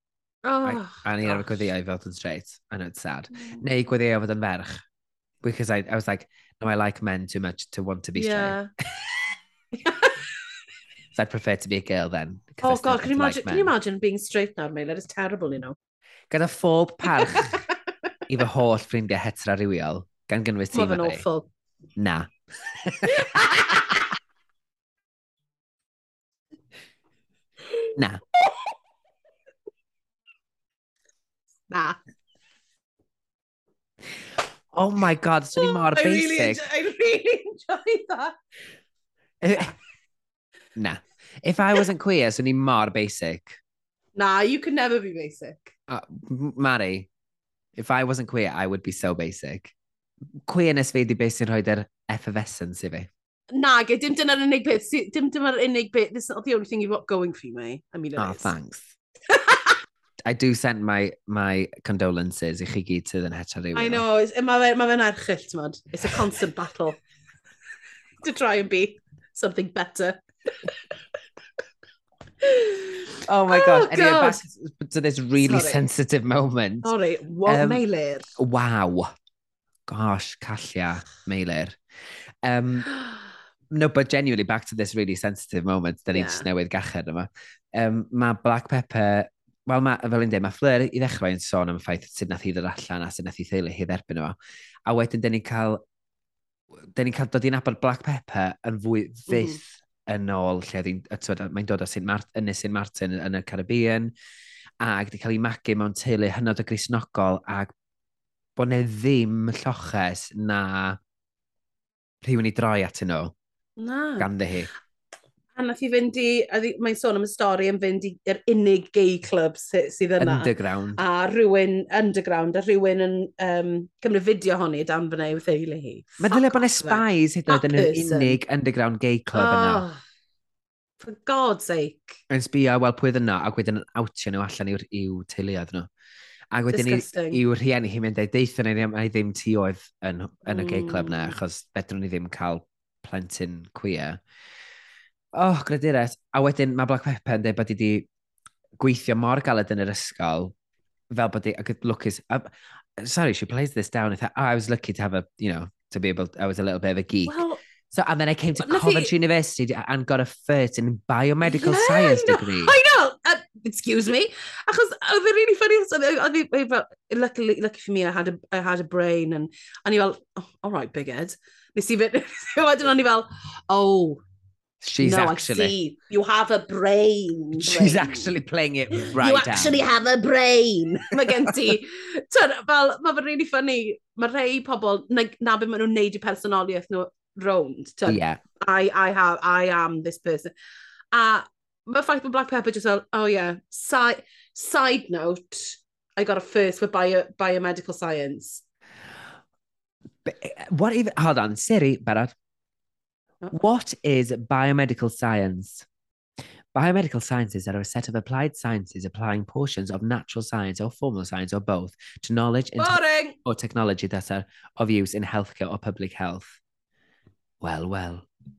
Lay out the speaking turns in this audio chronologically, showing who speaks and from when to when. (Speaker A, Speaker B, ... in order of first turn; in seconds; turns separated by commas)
Speaker A: 0.5-1.7, Speaker B: 0.6-4.8, Speaker A: 3.3-3.6, Speaker B: 5.4-8.6, Speaker A: 8.2-8.7, Speaker A: 9.7-10.2, Speaker B: 11.2-13.7, Speaker A: 12.6-15.8, Speaker B: 16.3-17.6, Speaker A: 17.2-17.6, Speaker B: 18.3-21.2, Speaker A: 20.7-21.5, Speaker B: 22.0-24.0, Speaker A: 23.1-24.0, Speaker B: 28.0-28.2, Speaker A: 31.7-32.0, Speaker B: 34.7-36.6, Speaker A: 35.6-38.4, Speaker B: 39.4-39.7, Speaker B: 40.8-43.6, Speaker A: 44.2-45.7, Speaker B: 45.9-47.1, Speaker B: 47.8-49.7, Speaker B: 50.5-53.1, Speaker A: 53.5-58.5, Speaker B: 58.2-58.9, Speaker A: 59.3-59.8, Speaker B: 60.2-64.0, Speaker A: 63.7-67.0, Speaker A: 68.2-70.7, Speaker A: 72.4-74.4, Speaker B: 73.2-76.9, Speaker A: 75.4-75.9, Speaker A: 76.8-78.3, Speaker B: 77.5-77.8, Speaker B: 78.4-79.1, Speaker B: 79.9-81.8, Speaker B: 82.4-82.9, Speaker B: 83.7-95.8, Speaker A: 86.1-86.5, Speaker B: 97.0-104.1, Speaker A: 99.3-99.6, Speaker B: 104.8-107.7, Speaker B: 108.6-111.0, Speaker B: 112.2-113.3, Speaker A: 113.8-114.3, Speaker B: 114.2-114.7, Speaker A: 115.6-128.4, Speaker B: 120.2-121.0, Speaker B: 126.2-129.8, Speaker A: 129.3-130.0, Speaker A: 131.0-132.2, Speaker B: 132.3-135.9, Speaker B: 136.5-144.2, Speaker A: 136.7-137.4, Speaker A: 140.5-141.4, Speaker B: 145.3-148.1, Speaker B: 148.8-150.5, Speaker B: 151.1-157.4, Speaker A: 157.3-157.6, Speaker B: 157.9-162.8, Speaker A: 158.6-159.1, Speaker A: 161.5-174.2, Speaker B: 174.8-175.7, Speaker A: 175.0-178.3, Speaker B: 177.6-179.8, Speaker A: 178.9-190.5, Speaker B: 181.2-181.5, Speaker B: 188.1-188.4, Speaker A: 191.1-198.6, Speaker B: 200.2-202.3, Speaker B: 203.5-205.9, Speaker B: 206.8-216.6, Speaker A: 212.8-213.4, Speaker B: 217.6-218.3